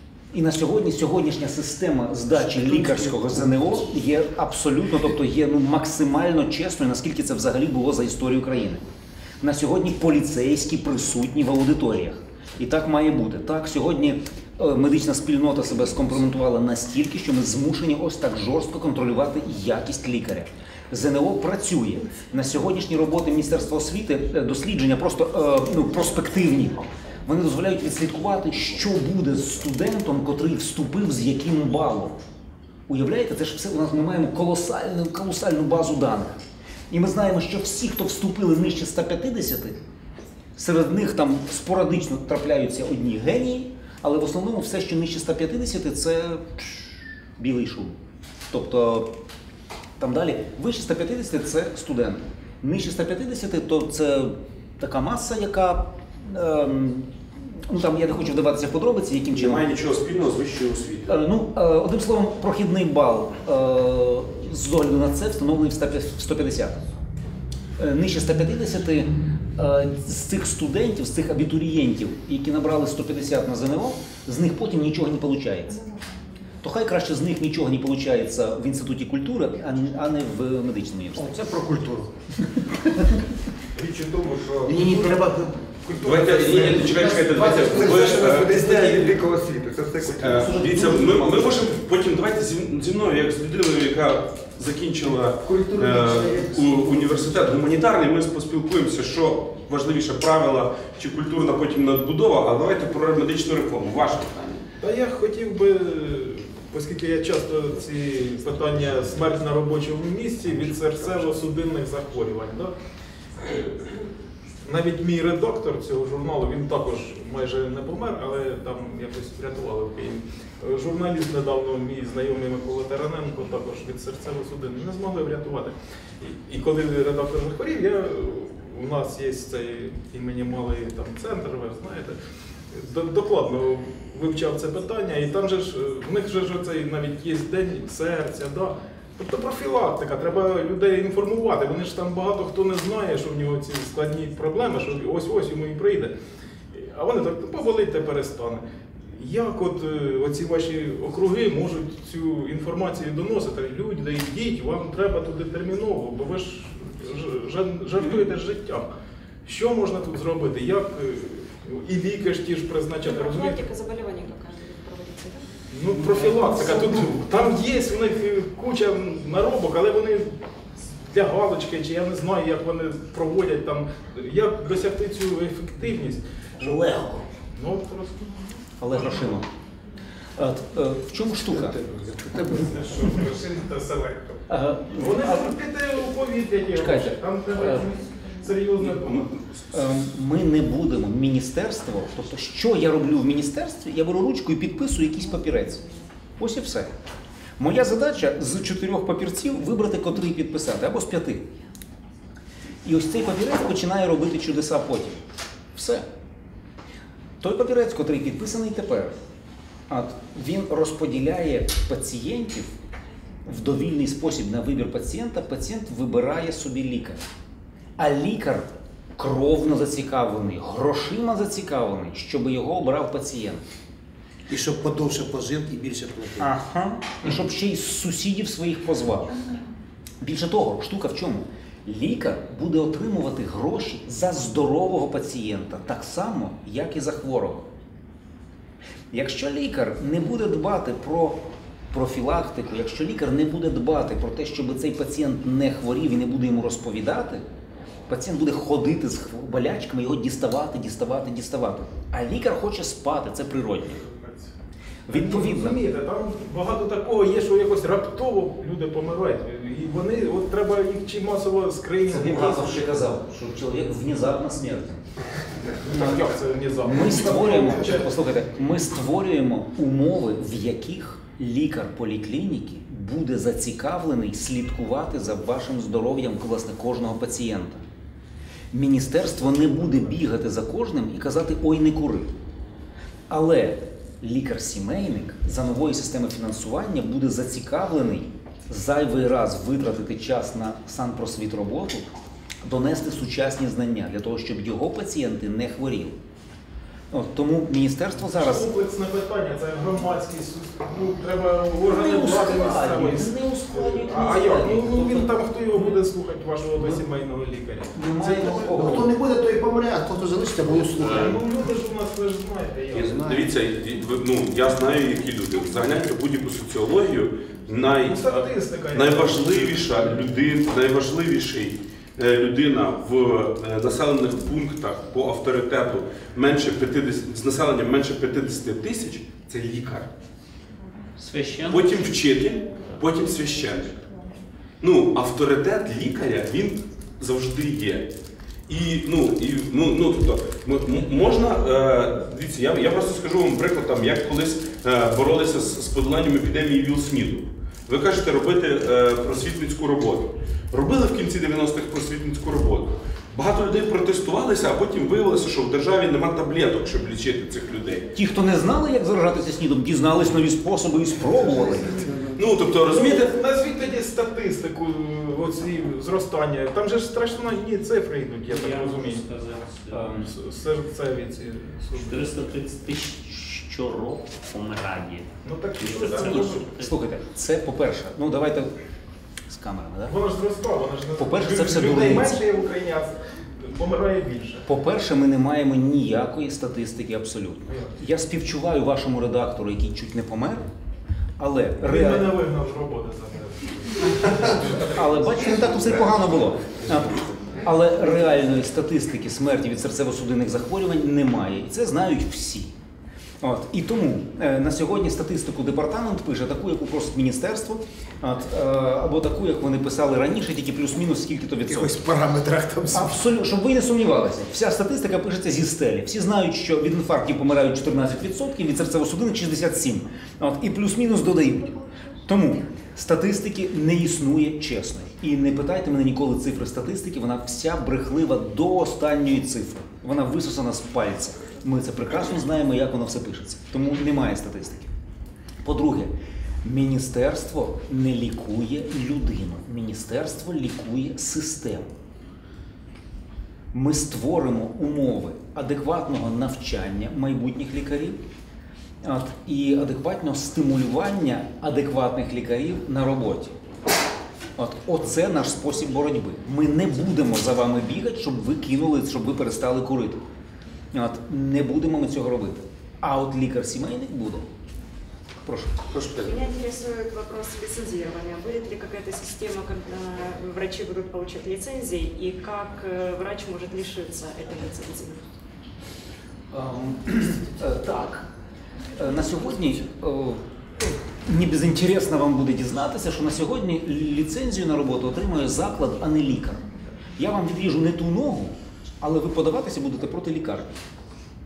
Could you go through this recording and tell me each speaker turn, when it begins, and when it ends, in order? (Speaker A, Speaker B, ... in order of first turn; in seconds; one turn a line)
Speaker A: 0.3-8.8
Speaker A: 9.4-32.2
Speaker A: 32.9-36.4
Speaker A: 36.9-39.8
Speaker A: 40.6-48.0
Speaker A: 48.5-49.1
Speaker A: 50.0-57.1
Speaker A: 57.7-59.6
Speaker B: 59.3-61.1
Speaker A: 61.1-66.8
Speaker A: 67.8-75.8
Speaker A: 76.6-81.3
Speaker C: 81.2-83.1
Speaker D: 83.8-85.3
Speaker C: 84.7-89.1
Speaker D: 85.9-90.9
Speaker B: 86.0-88.8
Speaker B: 90.2-104.6
Speaker C: 90.5-91.0
Speaker A: 90.6-91.5
Speaker C: 95.4-97.6
Speaker E: 104.8-112.7
Speaker E: 113.4-113.9
Speaker E: 114.7-132.2
Speaker E: 132.7-146.1
Speaker E: 146.7-158.9
Speaker E: 159.4-163.6
Speaker F: 163.0-165.5
Speaker E: 165.7-170.3
Speaker F: 166.2-167.1
Speaker E: 171.0-176.9
Speaker A: 176.6-177.2
Speaker E: 177.5-179.3
Speaker A: 178.8-179.5
Speaker A: 180.4-181.8
Speaker C: 181.5-182.9
Speaker E: 183.0-184.4
Speaker A: 184.5-185.6
Speaker E: 184.9-189.4
Speaker A: 186.8-187.9
Speaker A: 189.7-195.8
Speaker A: 196.4-196.9
Speaker A: 197.6-201.5
Speaker A: 202.8-205.2
Speaker A: 205.8-206.1
Speaker A: 207.4-209.2
Speaker A: 209.9-212.7
Speaker A: 213.5-217.2
Speaker A: 218.0-223.6
Speaker C: 224.5-226.5
Speaker A: 226.4-229.4
Speaker A: 230.2-237.7
Speaker A: 239.1-241.4
Speaker A: 241.9-247.4
Speaker A: 248.1-254.1
Speaker A: 255.1-255.8
Speaker E: 255.1-262.9
Speaker A: 262.1-265.1
Speaker E: 265.8-268.1
Speaker A: 265.9-266.2
Speaker A: 266.8-277.8
Speaker A: 278.7-282.3
Speaker A: 283.3-296.2
Speaker A: 297.1-298.7
Speaker E: 298.3-309.0
Speaker A: 301.8-306.0
Speaker A: 306.8-307.0
Speaker A: 307.9-309.1
Speaker C: 308.7-311.4
Speaker E: 310.9-313.4
Speaker B: 312.9-318.4
Speaker C: 313.1-313.5
Speaker E: 318.0-320.1
Speaker B: 318.9-330.1
Speaker G: 331.2-332.1
Speaker B: 331.7-334.0
Speaker B: 334.8-338.1
Speaker B: 338.7-358.1
Speaker A: 358.1-362.0
Speaker C: 361.4-362.4
Speaker B: 362.4-363.3
Speaker E: 362.8-369.2
Speaker G: 368.5-370.1
Speaker A: 369.9-370.3
Speaker E: 370.1-372.5
Speaker G: 372.0-376.9
Speaker E: 375.4-376.7
Speaker A: 376.3-378.8
Speaker A: 379.5-380.2
Speaker E: 380.1-384.6
Speaker A: 381.2-382.4
Speaker A: 384.7-390.6
Speaker E: 387.7-387.9
Speaker A: 391.4-392.4
Speaker E: 391.8-394.9
Speaker A: 394.8-402.7
Speaker C: 395.4-395.8
Speaker A: 403.4-411.9
Speaker C: 411.7-413.2
Speaker A: 412.9-434.9
Speaker A: 435.6-441.9
Speaker A: 443.7-448.2
Speaker A: 449.0-453.5
Speaker A: 454.6-460.2
Speaker A: 460.9-464.5
Speaker A: 465.4-465.8
Speaker B: 465.9-466.3
Speaker F: 466.2-475.2
Speaker A: 476.5-478.3
Speaker A: 478.9-486.6
Speaker A: 487.2-490.8